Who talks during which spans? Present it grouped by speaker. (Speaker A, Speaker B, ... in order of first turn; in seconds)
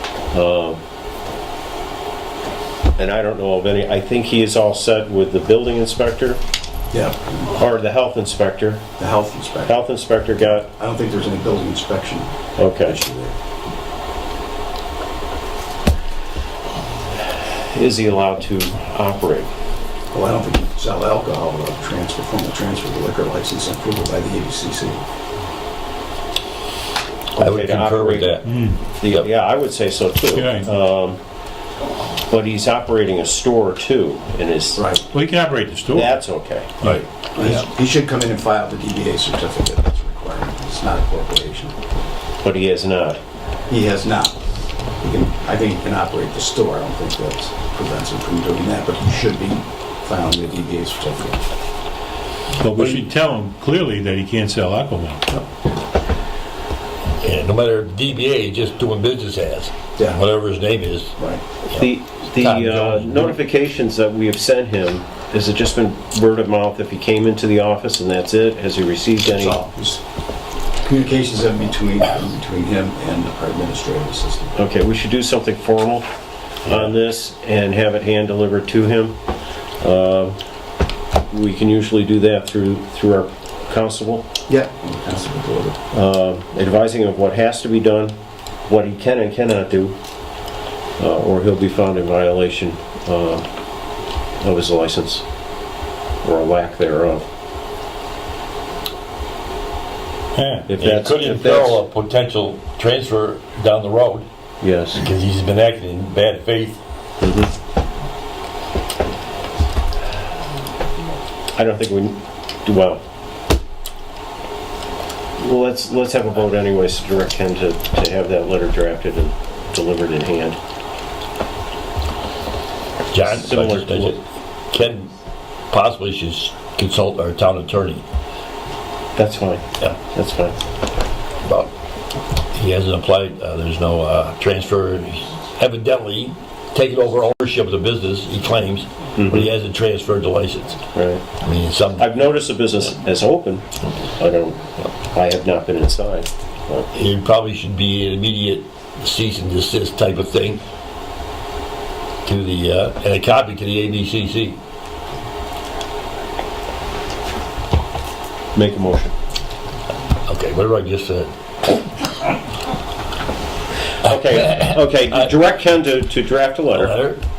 Speaker A: 0.3-0.8, 3.0-6.4, 7.5-8.9, 9.7-10.7, 12.6-13.0, 17.2-19.5, 27.3-31.2, 32.3-34.9, 35.9-36.7, 42.4-43.2, 61.7-69.6, 74.5-76.1, 76.7-79.2, 79.8-80.4, 81.3-84.3, 85.9-88.2, 88.7-90.0, 91.0-93.5, 94.4-95.3, 96.2-97.3, 100.7-101.8, 104.6-105.0, 107.2-107.5, 111.5-113.0, 115.4-120.6, 123.2-124.2, 129.2-130.6, 139.2-139.5, 140.9-141.2, 142.0-144.6, 145.1-146.9, 158.5-159.1, 164.0-167.0
Speaker B: 6.9-7.5, 9.0-9.8, 10.6-13.4, 20.1-25.0, 34.8-35.0, 37.4-41.8, 43.7-44.4, 45.0-51.5, 60.0-60.2, 61.2-61.4, 69.3-70.0, 70.8-74.6, 84.5-85.8
Speaker C: 27.4-28.5, 57.2-61.2, 61.7-63.4, 100.8-104.3, 104.9-106.8, 123.1-125.1, 125.7-128.0, 131.4-131.7, 132.5-140.8, 141.4-142.1, 146.9-150.6, 152.2-154.6, 160.3-162.1, 164.1-165.3, 166.8-167.2
Speaker D: 28.4-28.8, 30.3-30.7, 35.1-36.3, 36.8-37.1, 52.6-55.3, 100.3-100.7